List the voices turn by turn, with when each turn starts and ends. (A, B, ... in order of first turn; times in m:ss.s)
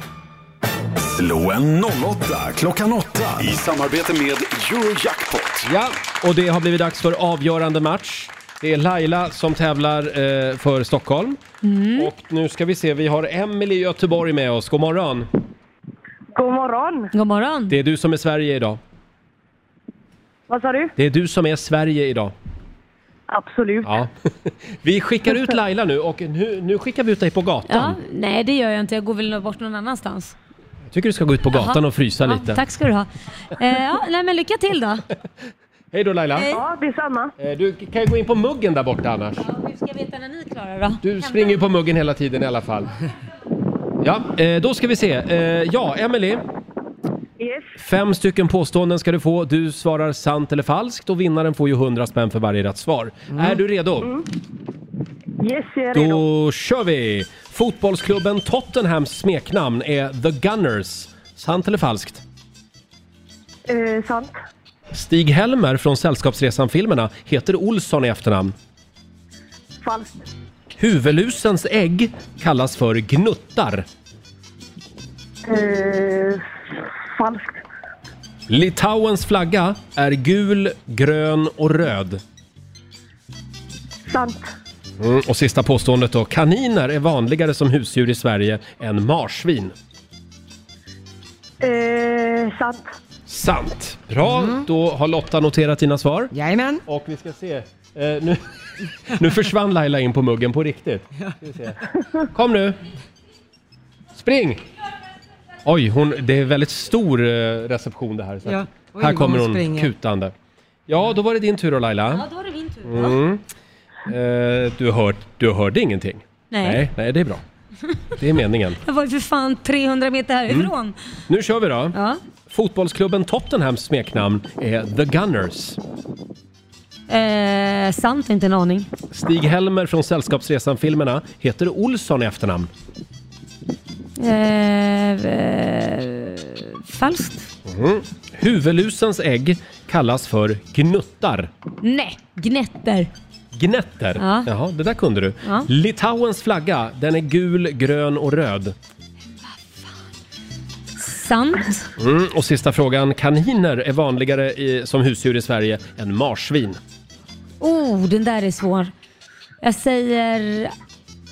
0:01.0-0:05.7 A
0:05.6-0:11.4 B
0:11.6-0:12.1 C
0:11.9-0:15.3 B
0:16.3-0:17.1 D
0:17.1-0:17.7 C
0:17.7-0:18.8 B
0:20.5-0:20.9 D
0:21.0-0:22.3 B
0:23.3-0:24.0 D
0:23.8-0:28.0 B
0:27.7-0:30.3 C
0:30.9-0:32.6 B
0:31.5-0:35.0 C
0:35.9-0:36.5 B
0:36.4-0:37.3 D
0:37.4-0:39.4 B
0:39.4-0:41.6 C
0:41.0-0:42.9 B
0:44.0-0:46.4 B
0:47.4-0:47.7 D
0:47.8-0:54.1 B
0:55.4-0:56.2 D
0:55.9-1:02.2 B
1:03.7-1:04.3 D
1:04.9-1:08.5 B
1:09.8-1:10.2 D
1:10.8-1:13.8 B
1:15.4-1:16.4 D
1:17.2-1:17.6 D
1:18.5-1:22.2 B
1:24.1-1:24.4 D
1:25.0-1:29.7 B
1:31.6-1:32.9 D
1:33.3-1:36.3 B
1:34.2-1:34.6 E
1:36.3-1:36.8 E
1:36.8-1:38.4 B
1:39.0-1:42.8 B
1:44.2-1:44.6 B
1:45.6-1:50.3 B
1:48.4-1:49.9 E
1:50.9-1:52.2 B
1:52.1-1:53.2 C
1:52.8-1:53.4 B
1:54.1-1:57.4 B
1:56.5-1:56.8 C
1:58.2-1:58.8 B
1:58.8-2:00.9 C
2:01.3-2:05.8 B
2:01.9-2:02.2 C
2:07.1-2:08.9 C
2:09.1-2:12.7 B
2:14.2-2:17.5 C
2:17.6-2:21.5 B
2:21.8-2:23.1 C
2:23.5-2:28.7 B
2:24.2-2:24.5 C
2:31.0-2:31.8 C
2:32.0-2:36.8 B
2:37.6-2:38.9 C
2:39.6-2:40.7 C